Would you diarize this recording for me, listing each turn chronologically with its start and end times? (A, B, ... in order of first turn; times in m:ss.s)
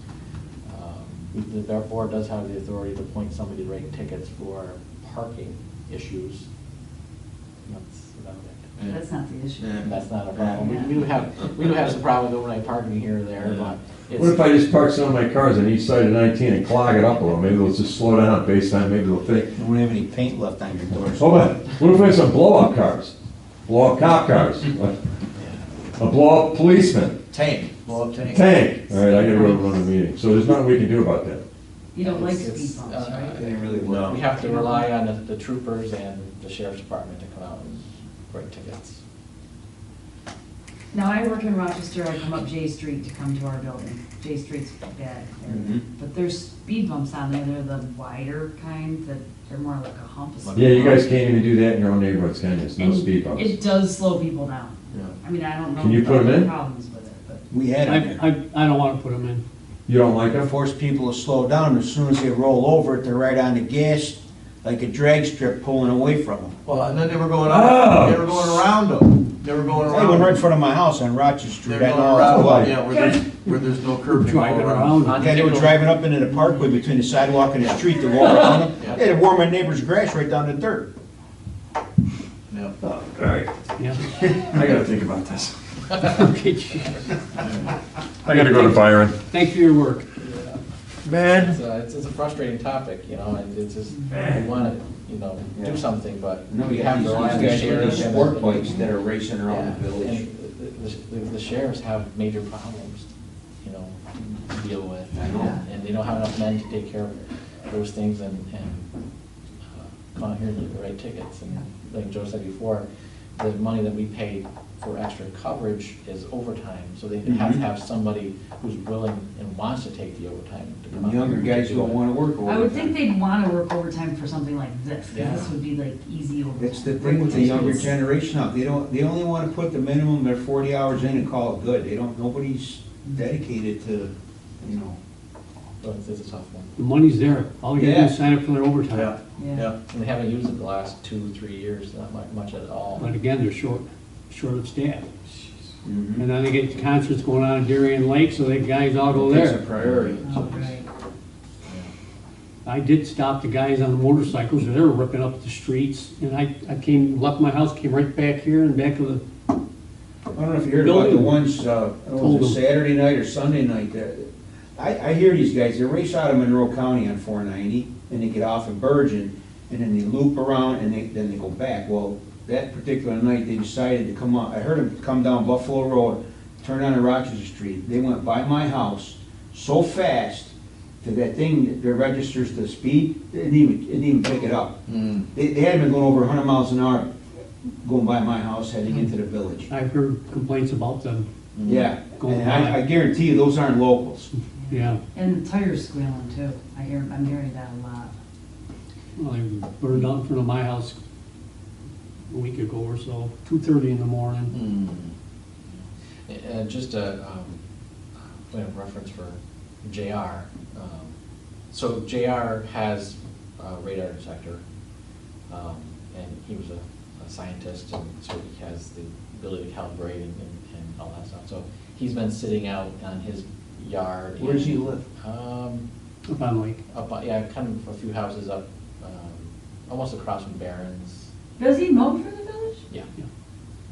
0:00.6-0:06.5 A
0:07.7-0:08.7 A
0:08.9-0:09.8 B
0:09.6-0:10.7 C
0:09.8-0:14.6 A
0:10.6-0:10.9 B
0:13.4-0:13.7 C
0:14.2-0:19.6 D
0:19.6-0:21.5 E
0:21.2-0:23.1 D
0:23.7-0:25.0 D
0:25.4-0:25.6 A
0:26.0-0:27.2 D
0:27.3-0:27.7 E
0:27.6-0:28.7 C
0:28.3-0:31.4 D
0:29.0-0:29.5 A
0:31.9-0:33.4 B
0:32.0-0:39.0 A
0:33.4-0:34.2 E
0:33.4-0:34.3 C
0:34.4-0:34.9 B
0:40.9-0:51.1 B
0:45.5-0:45.8 E
0:50.4-0:51.0 A
0:50.6-0:53.6 D
0:52.8-0:57.4 B
0:55.7-0:56.5 D
0:57.5-0:58.2 E
0:57.8-0:59.4 F
0:59.9-1:00.5 D
1:00.4-1:06.5 E
1:06.6-1:10.4 C
1:07.4-1:08.6 D
1:09.9-1:12.7 E
1:11.6-1:15.3 C
1:14.1-1:15.2 F
1:15.0-1:15.8 A
1:15.2-1:20.9 E
1:18.2-1:18.5 D
1:22.5-1:22.7 C
1:22.8-1:23.6 D
1:24.1-1:25.6 D
1:26.0-1:27.1 F
1:28.2-1:29.2 D
1:28.3-1:30.1 F
1:30.2-1:30.6 A
1:31.0-1:31.6 D
1:31.2-1:38.9 A
1:34.1-1:34.5 D
1:36.5-1:40.2 E
1:37.5-1:38.0 B
1:39.5-1:43.1 A
1:43.6-1:47.2 A
1:45.1-1:45.6 E
1:47.7-1:48.9 A
1:49.7-2:02.0 A
1:57.2-1:57.6 E
2:00.9-2:03.0 E
2:02.4-2:07.9 B
2:05.1-2:05.5 A
2:06.6-2:15.0 E
2:07.3-2:07.9 A
2:15.8-2:16.7 A
2:16.8-2:19.2 F
2:17.7-2:18.1 E
2:18.9-2:19.8 C
2:19.4-2:19.7 B
2:19.9-2:23.1 A
2:23.0-2:25.1 F
2:25.8-2:26.3 E
2:26.2-2:29.6 F
2:29.2-2:30.2 E
2:29.5-2:30.7 C
2:30.2-2:30.9 B
2:31.7-2:31.9 A
2:32.6-2:39.2 F
2:40.3-3:07.1 E
2:40.8-2:41.4 F
2:42.1-2:42.6 F
3:04.9-3:05.3 C
3:07.8-3:09.7 E
3:09.7-3:11.3 F
3:11.5-3:11.9 C
3:11.6-3:14.3 E
3:12.1-3:12.8 F
3:14.6-3:18.1 B
3:14.7-3:15.0 F
3:19.2-3:21.0 F
3:22.3-3:24.5 F
3:24.5-3:25.1 C
3:26.3-3:27.6 A
3:28.5-3:31.1 A
3:31.7-3:34.6 A
3:35.5-3:45.9 A
3:44.4-3:45.0 E
3:46.3-3:46.8 F
3:46.9-3:51.3 A
3:51.6-3:52.8 B